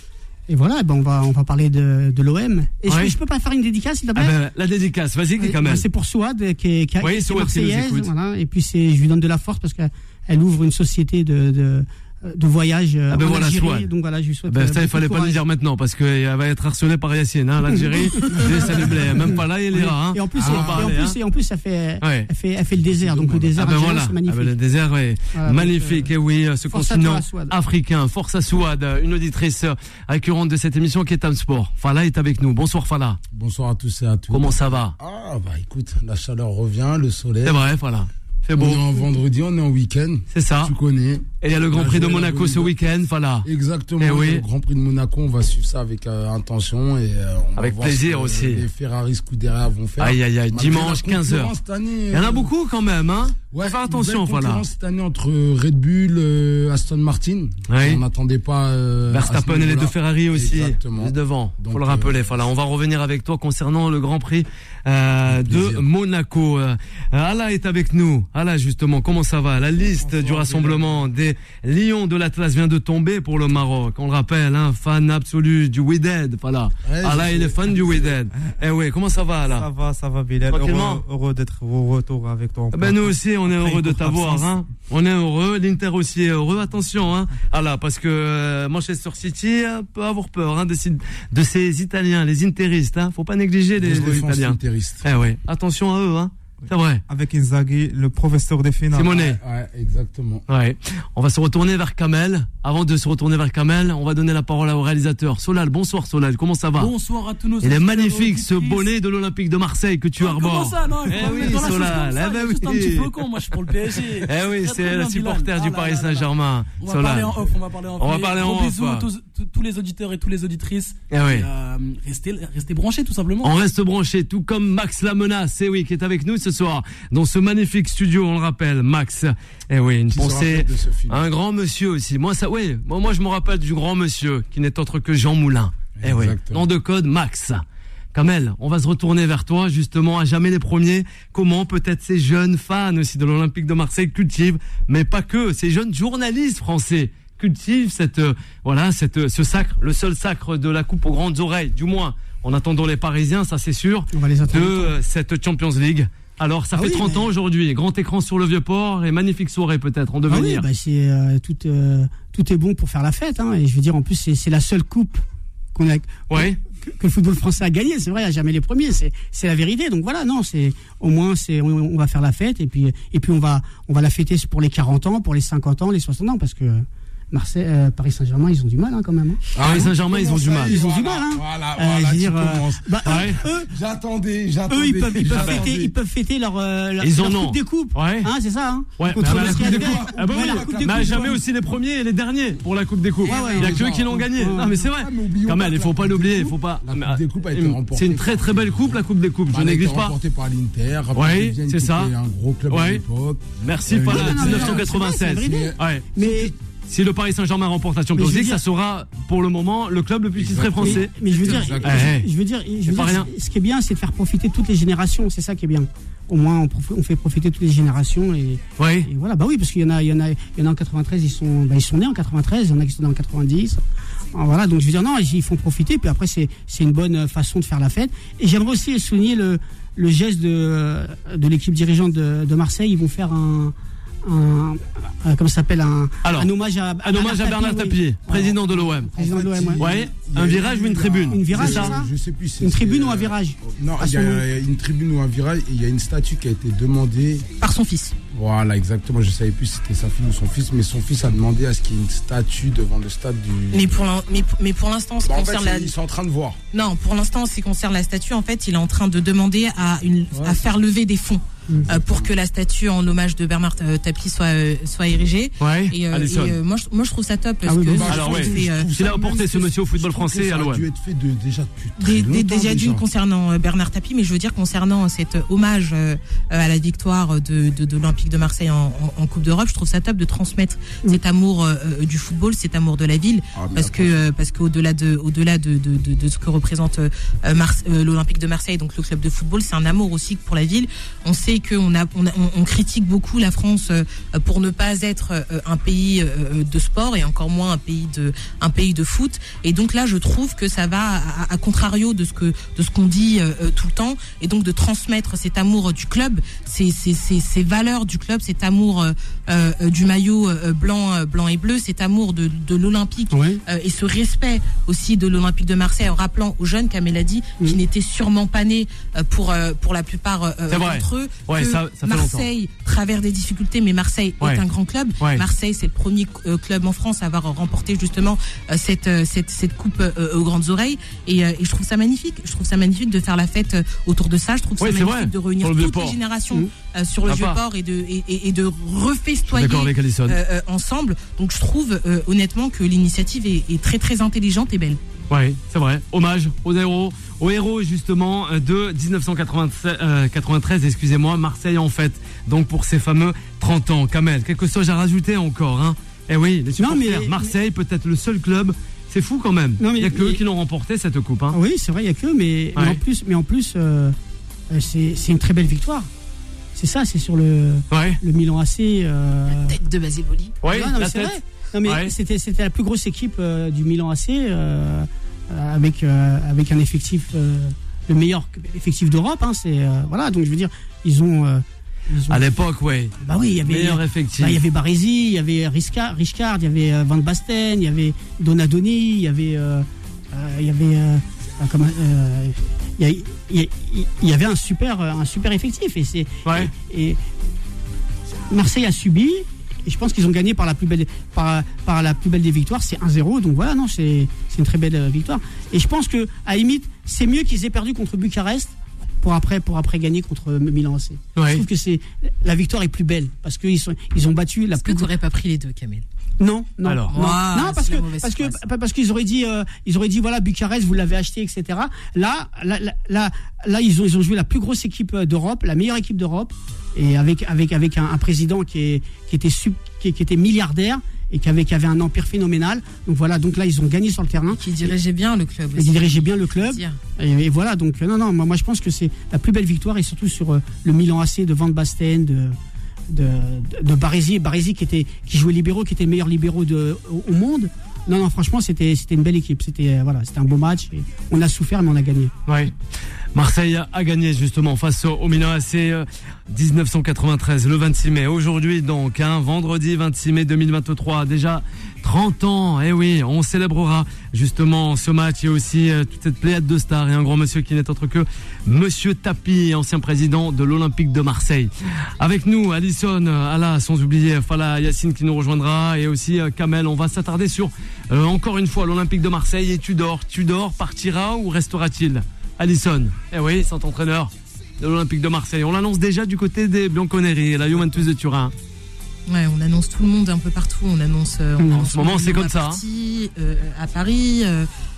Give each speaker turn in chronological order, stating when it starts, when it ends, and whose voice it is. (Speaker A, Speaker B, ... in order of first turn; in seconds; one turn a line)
Speaker A: 0.5-4.3
Speaker B: 2.9-3.1
Speaker B: 4.2-5.8
Speaker A: 5.4-15.4
Speaker B: 7.0-8.1
Speaker B: 13.1-13.9
Speaker B: 14.5-21.1
Speaker A: 17.7-24.6
Speaker C: 18.3-19.2
Speaker C: 20.3-20.9
Speaker B: 22.0-22.3
Speaker C: 22.7-23.6
Speaker B: 23.6-33.2
Speaker A: 25.3-26.1
Speaker A: 26.7-27.5
Speaker C: 33.3-37.6
Speaker B: 34.3-34.9
Speaker B: 37.4-38.8
Speaker C: 38.6-42.8
Speaker B: 40.3-40.7
Speaker B: 41.4-43.5
Speaker C: 43.4-52.5
Speaker B: 44.0-44.4
Speaker B: 47.6-48.6
Speaker B: 50.0-51.5
Speaker B: 52.1-54.6
Speaker C: 53.5-62.3
Speaker B: 57.7-58.0
Speaker B: 59.1-79.7
Speaker C: 65.2-65.8
Speaker D: 69.9-71.1
Speaker C: 76.8-78.1
Speaker D: 79.5-84.6
Speaker B: 80.5-81.0
Speaker B: 82.7-97.0
Speaker C: 93.8-95.1
Speaker D: 97.1-99.2
Speaker B: 98.9-99.4
Speaker C: 99.1-100.4
Speaker B: 100.5-106.9
Speaker E: 106.8-108.9
Speaker B: 107.6-119.1
Speaker E: 110.2-123.5
Speaker B: 121.1-121.5
Speaker B: 123.4-137.6
Speaker C: 130.1-131.3
Speaker C: 136.0-136.7
Speaker B: 138.1-160.6
Speaker A: 154.1-154.9
Speaker A: 156.7-157.3
Speaker A: 160.3-165.2
Speaker A: 165.7-179.4
Speaker B: 166.3-166.6
Speaker C: 179.5-185.9
Speaker B: 179.6-180.7
Speaker A: 180.7-183.7
Speaker B: 183.0-183.4
Speaker A: 184.7-191.3
Speaker B: 185.3-185.7
Speaker B: 187.0-188.3
Speaker B: 189.0-200.1
Speaker C: 189.2-191.4
Speaker F: 193.2-193.7
Speaker A: 193.3-194.9
Speaker C: 193.6-206.5
Speaker B: 201.1-202.1
Speaker B: 202.7-203.0
Speaker B: 203.6-206.1
Speaker A: 204.0-206.5
Speaker B: 206.9-211.1
Speaker A: 208.1-208.6
Speaker C: 210.3-212.2
Speaker A: 210.8-223.8
Speaker F: 211.3-211.7
Speaker B: 211.8-212.3
Speaker B: 212.9-213.3
Speaker B: 218.8-219.1
Speaker A: 224.3-239.8
Speaker B: 236.2-236.5
Speaker B: 237.0-239.1
Speaker C: 239.2-247.4
Speaker B: 239.8-241.9
Speaker A: 241.3-242.1
Speaker A: 242.6-244.4
Speaker F: 247.6-248.1
Speaker C: 248.3-254.1
Speaker F: 253.7-255.9
Speaker C: 255.2-256.6
Speaker F: 256.7-268.9
Speaker C: 260.3-260.6
Speaker C: 261.9-262.3
Speaker B: 265.6-266.6
Speaker A: 267.6-268.2
Speaker C: 267.9-273.0
Speaker B: 268.1-270.8
Speaker F: 272.0-345.0
Speaker C: 283.5-284.2
Speaker A: 313.3-313.6
Speaker B: 320.7-322.5
Speaker B: 325.2-325.4
Speaker B: 334.8-336.2
Speaker B: 337.2-337.6
Speaker B: 339.5-340.4
Speaker B: 345.3-361.6
Speaker A: 356.8-357.5
Speaker A: 359.8-360.4
Speaker A: 361.5-364.1
Speaker B: 362.7-363.0
Speaker A: 364.7-366.1
Speaker A: 366.7-369.8
Speaker B: 367.9-368.2
Speaker F: 369.5-370.6
Speaker B: 370.6-371.3
Speaker A: 370.6-382.4
Speaker B: 371.8-372.1
Speaker B: 382.3-383.1
Speaker A: 383.2-397.2
Speaker B: 383.6-384.6
Speaker B: 396.4-396.7
Speaker A: 398.5-415.1
Speaker B: 411.4-411.6
Speaker F: 414.8-416.0
Speaker A: 416.4-434.9
Speaker B: 416.8-417.1
Speaker F: 417.1-418.6
Speaker F: 434.5-437.0
Speaker A: 435.8-442.6
Speaker A: 443.1-452.3
Speaker B: 452.4-452.7
Speaker B: 453.3-488.5
Speaker F: 489.3-494.7
Speaker B: 491.7-492.8